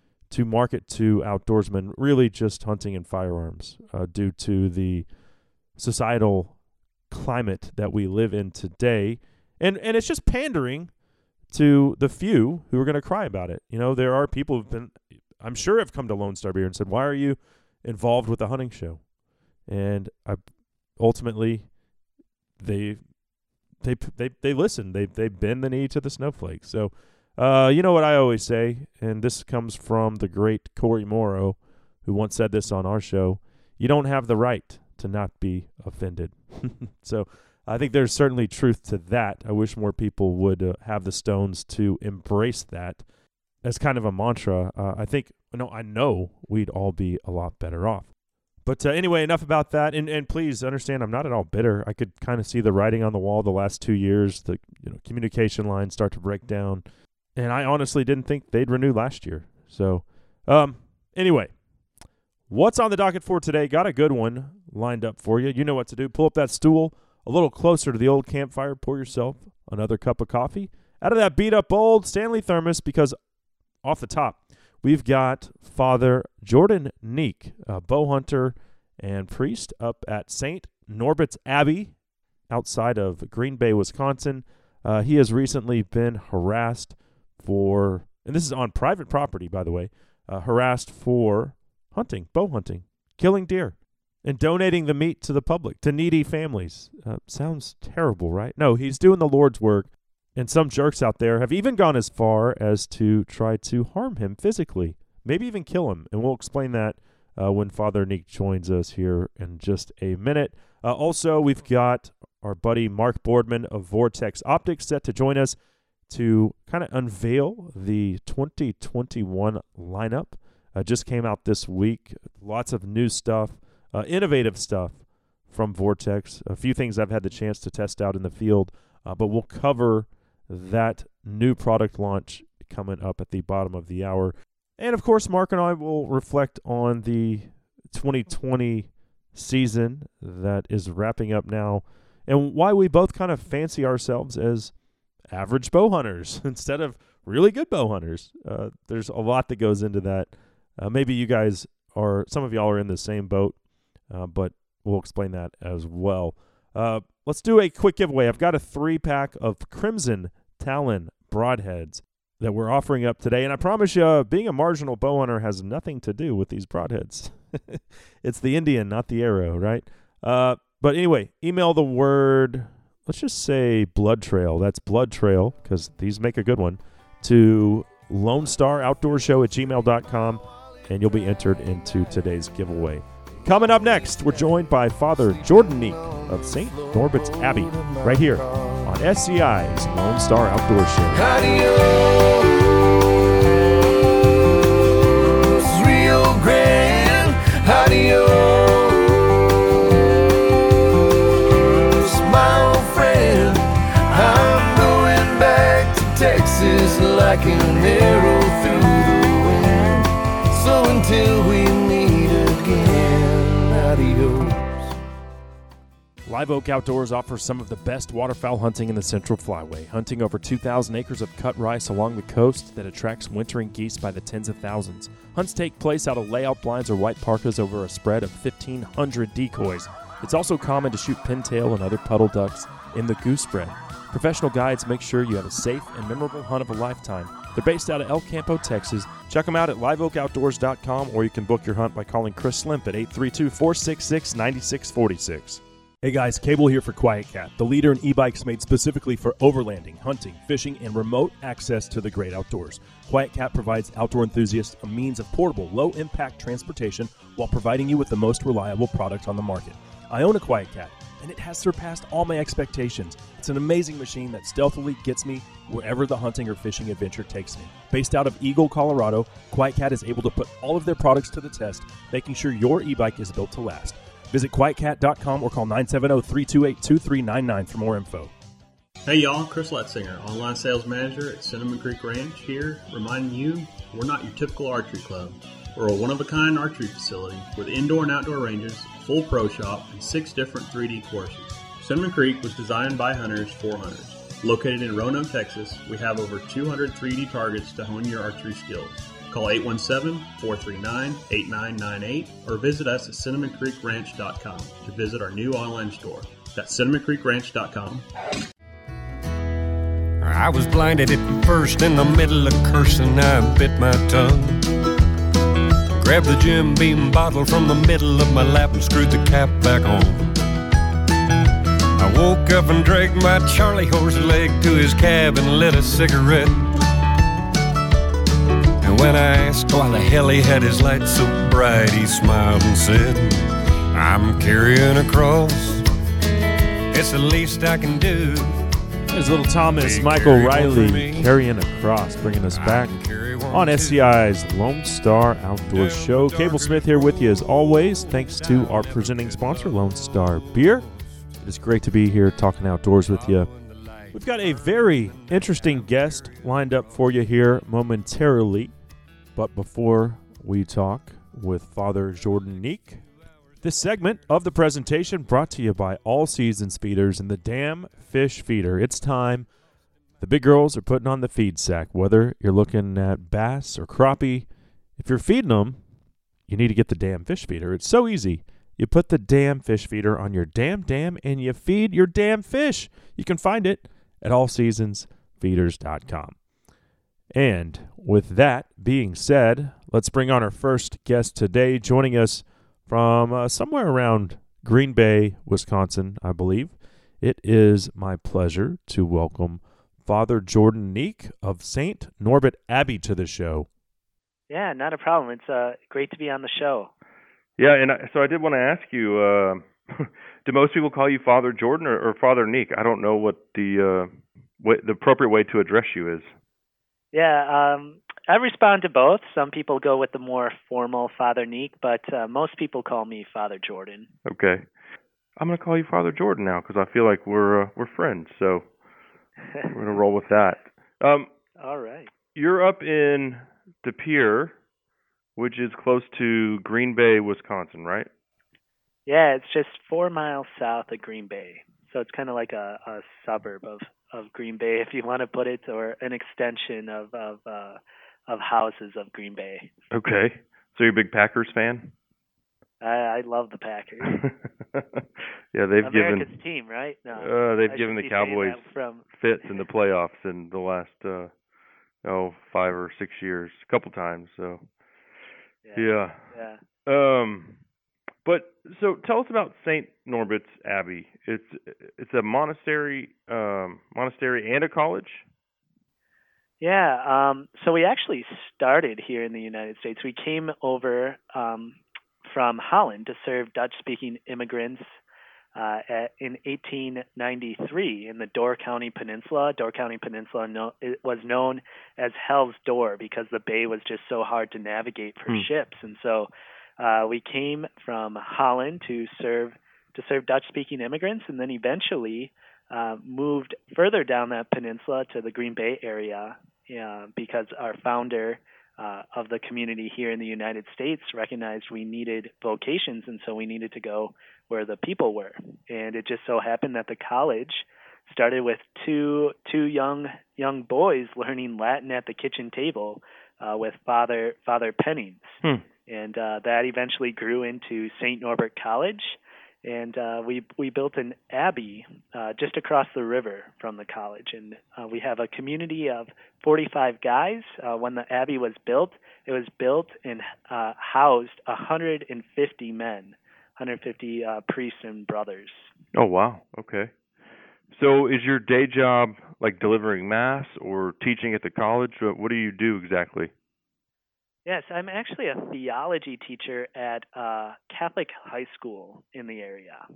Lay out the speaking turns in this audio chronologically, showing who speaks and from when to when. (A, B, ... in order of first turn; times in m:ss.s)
0:00.3-0:05.1 A
0:05.8-0:06.6 A
0:07.1-0:10.9 A
0:11.5-0:19.0 A
0:19.7-0:20.4 A
0:21.0-0:21.7 A
0:22.6-0:23.0 A
0:23.8-0:43.0 A
0:43.6-0:48.1 A
0:48.6-1:01.5 A
1:02.5-1:13.2 A
1:13.8-1:21.9 A
1:22.5-1:55.6 A
1:56.1-2:24.7 A
2:25.3-2:33.6 A
2:34.1-3:11.2 A
3:11.1-3:12.8 B
3:15.1-3:19.3 B
3:21.6-3:34.9 B
3:36.3-4:05.6 A
4:06.0-4:38.3 C
4:39.0-5:08.0 D
5:10.2-5:14.6 E
5:15.9-5:20.3 E
5:22.0-5:26.7 E
5:28.8-5:35.8 E
5:36.9-5:38.6 E
5:39.1-5:50.8 A
5:39.7-5:41.3 E
5:42.5-5:44.1 E
5:45.7-5:50.8 E
5:51.4-5:53.5 A
5:53.1-5:56.5 E
5:54.1-5:58.7 A
5:59.3-6:03.0 A
6:03.6-6:09.5 A
6:10.2-6:14.5 A
6:15.0-6:15.8 A
6:16.5-6:26.4 A
6:27.3-6:43.7 A
6:44.5-6:46.9 F
6:47.6-6:56.3 G
6:57.1-7:04.1 F
7:04.2-7:04.7 G
7:05.4-7:08.7 G
7:09.7-7:11.3 G
7:11.6-7:12.1 F
7:12.3-7:14.6 G
7:15.4-7:18.1 G
7:19.1-7:29.7 F
7:29.9-7:31.9 G
7:32.8-7:34.2 F
7:34.0-7:36.3 G
7:35.8-7:39.6 F
7:37.1-7:41.3 G
7:42.0-7:44.6 G
7:45.6-7:46.6 F
7:45.7-7:46.2 G
7:46.8-7:47.6 G
7:48.2-7:55.2 G
7:56.6-8:05.0 F
8:05.5-9:05.7 F
9:05.9-9:06.9 G
9:07.7-9:13.3 G
9:14.4-9:19.8 F